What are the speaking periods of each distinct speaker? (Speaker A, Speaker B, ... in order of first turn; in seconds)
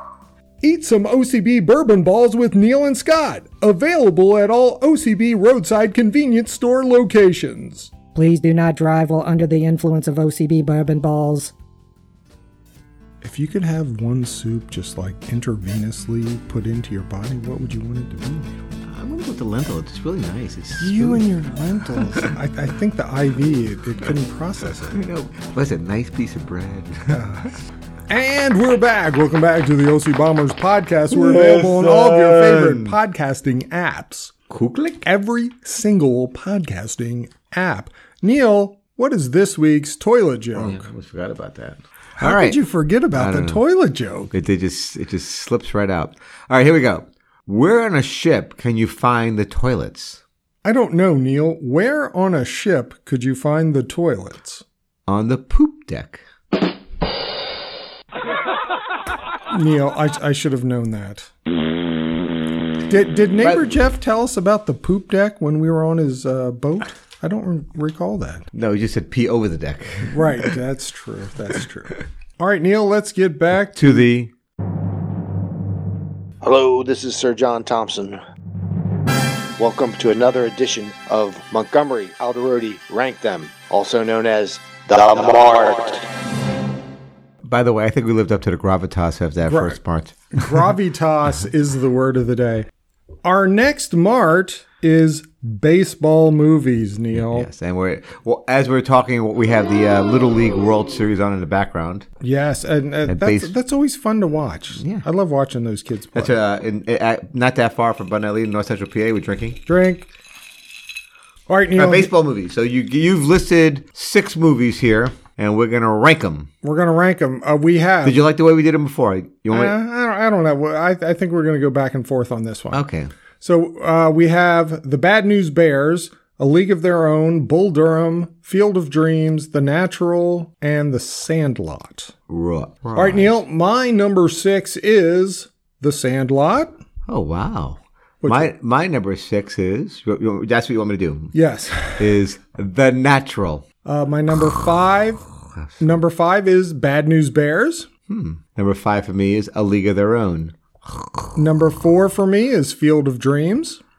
Speaker A: 0.6-7.9, 13.2-18.6, 20.8-25.0, 27.1-27.5, 28.1-34.3, 35.0-40.9, 42.2-44.3, 50.6-54.6, 59.5-61.3, 62.9-68.5, 70.0-74.0, 89.5-89.8, 90.3-92.7, 93.2-97.5, 102.2-106.3, 109.7-110.1, 111.5-112.1, 116.6-118.2, 119.5-122.8, 123.4-132.1, 132.9-136.7, 138.2-138.5, 141.3-142.1, 143.8-145.2, 145.8-147.9, 151.4-153.8
Speaker B: 8.2-11.5
Speaker C: 18.9-21.2, 21.9-22.3, 24.9-27.2, 31.1-33.0, 34.5-35.0, 40.6-42.6, 43.1-43.6, 44.3-50.2, 55.1-56.2, 63.4-63.7, 68.5-70.5, 73.8-74.3, 87.4-90.7, 97.2-102.1, 103.1-103.5, 104.8-105.0, 106.1-109.6, 111.8-116.5, 118.0-119.8, 122.7-123.1, 132.3-133.3, 137.1-141.3, 142.0-143.7, 148.1-151.2
Speaker D: 76.4-78.2, 79.6-86.0